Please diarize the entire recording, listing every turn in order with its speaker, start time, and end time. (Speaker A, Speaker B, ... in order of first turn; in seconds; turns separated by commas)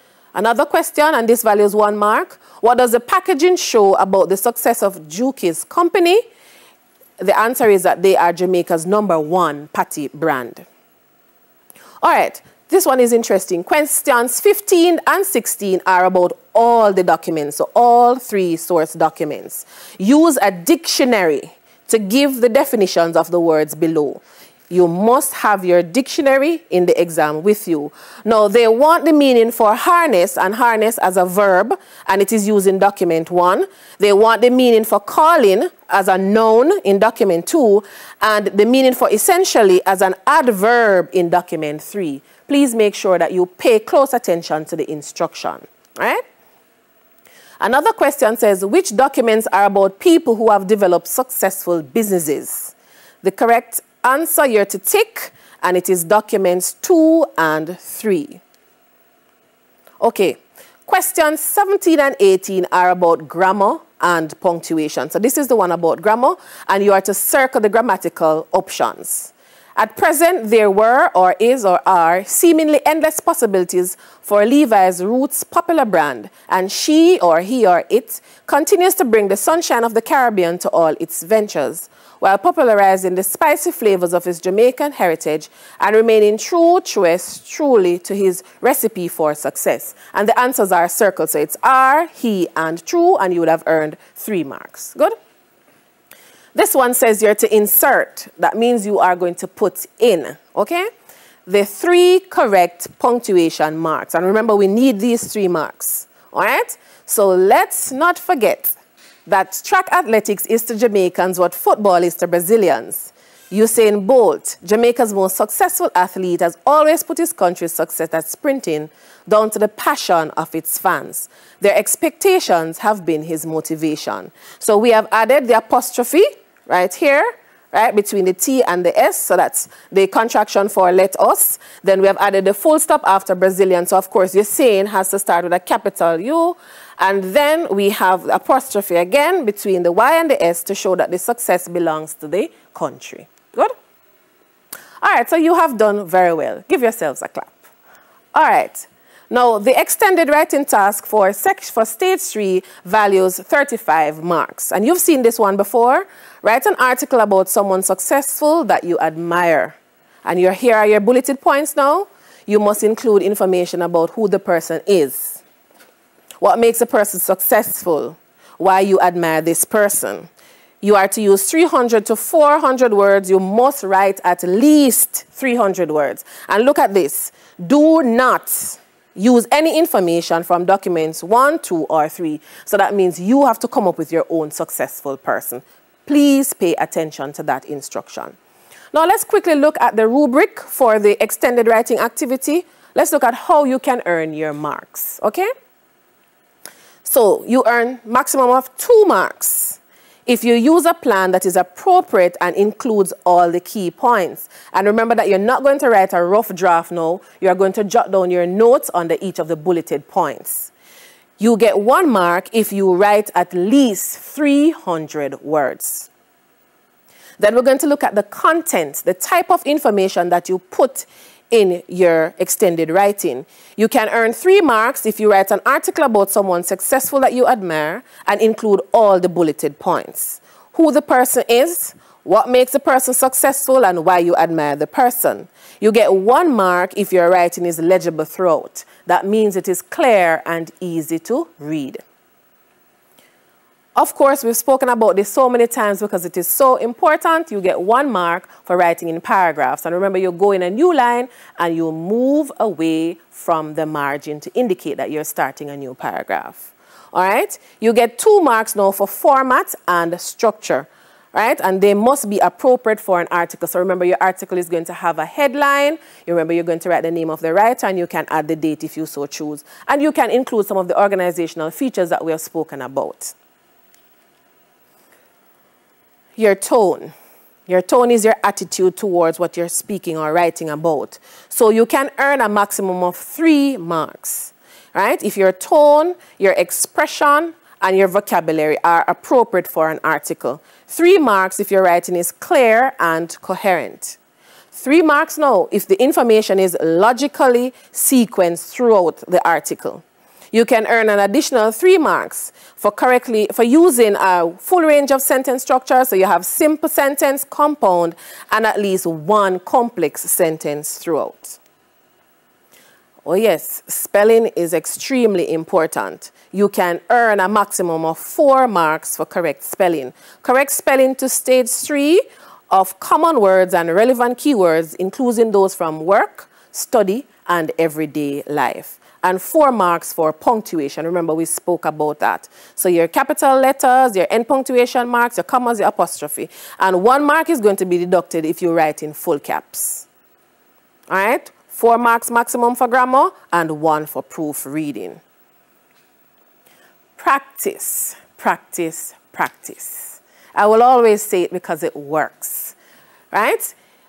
Speaker A: 0.3-6.2, Speaker A: 7.2-10.7, Speaker A: 12.0-46.2, Speaker A: 47.6-58.4, Speaker A: 60.0-95.1, Speaker A: 96.5-100.9, Speaker A: 101.5-143.7, Speaker A: 145.0-147.6, Speaker A: 148.3-165.4, Speaker A: 166.4-170.3, Speaker A: 170.8-188.4, Speaker A: 188.9-195.5, Speaker A: 197.0-210.7, Speaker A: 211.4-216.1, Speaker A: 217.4-242.0, Speaker A: 243.9-273.3, Speaker A: 276.4-277.1, Speaker A: 277.7-294.2, Speaker A: 294.7-311.6, Speaker A: 313.2-340.1, Speaker A: 341.1-345.2, Speaker A: 347.1-352.7, Speaker A: 353.3-353.8